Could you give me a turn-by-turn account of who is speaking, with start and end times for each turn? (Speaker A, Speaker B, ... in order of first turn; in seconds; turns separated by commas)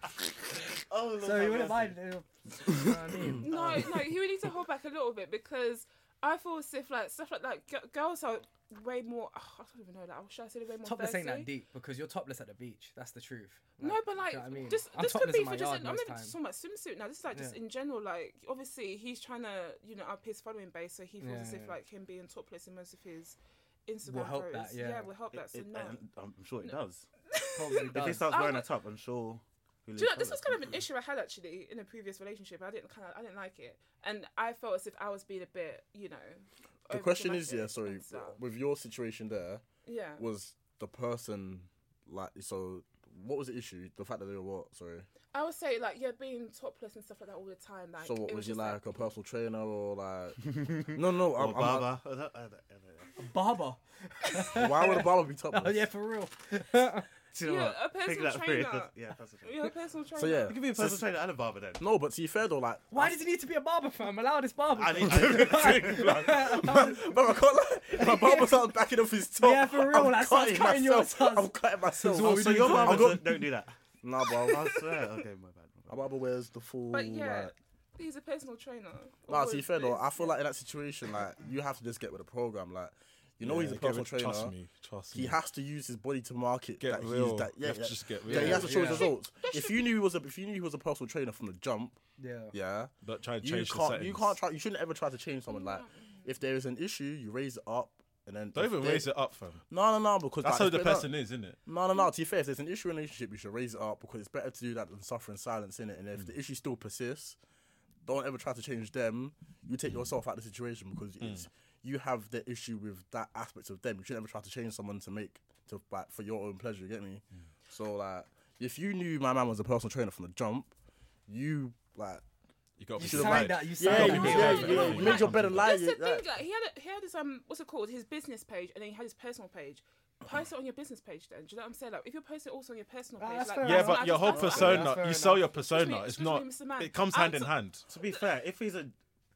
Speaker A: 0.7-2.0, Speaker B: 1.2-3.9, Speaker C: 3.4-11.5, Speaker B: 10.8-16.4, Speaker C: 13.8-26.0, Speaker B: 17.3-17.6, Speaker B: 21.2-21.8, Speaker B: 24.1-25.1, Speaker A: 25.3-27.1, Speaker C: 27.3-28.7, Speaker B: 27.5-28.3, Speaker A: 27.7-30.8, Speaker C: 29.9-38.4, Speaker D: 36.9-39.6, Speaker C: 39.9-40.2, Speaker D: 40.2-45.1, Speaker C: 45.3-49.1, Speaker D: 48.0-51.9, Speaker A: 50.5-53.1, Speaker B: 53.2-57.1, Speaker D: 54.5-55.9, Speaker A: 57.3-59.5, Speaker C: 57.4-58.9, Speaker C: 59.4-60.6, Speaker D: 60.1-61.0, Speaker E: 60.5-61.0, Speaker A: 60.6-61.8, Speaker D: 61.8-63.0, Speaker B: 62.9-67.2, Speaker A: 64.8-66.5, Speaker D: 65.1-73.5, Speaker B: 67.9-68.6, Speaker B: 69.4-73.4, Speaker A: 72.2-73.7, Speaker D: 74.0-74.8, Speaker A: 74.5-76.0, Speaker D: 75.9-77.5, Speaker C: 76.9-80.4, Speaker D: 79.3-84.5, Speaker E: 83.4-85.4, Speaker D: 85.1-92.0, Speaker E: 86.8-89.0, Speaker B: 88.3-89.1, Speaker C: 88.7-89.9, Speaker B: 92.2-92.5, Speaker D: 92.5-99.1, Speaker E: 93.0-94.3, Speaker C: 95.5-96.3, Speaker E: 98.5-99.6, Speaker D: 99.7-101.1, Speaker E: 100.4-101.6, Speaker D: 101.6-107.4, Speaker D: 108.0-120.7, Speaker E: 111.2-111.5, Speaker D: 121.3-122.2, Speaker E: 122.8-125.7, Speaker B: 123.0-125.0, Speaker D: 123.0-126.2, Speaker C: 124.3-134.9, Speaker B: 133.2-135.5, Speaker E: 133.6-137.8, Speaker D: 134.5-134.9, Speaker C: 135.5-138.2, Speaker A: 137.9-138.9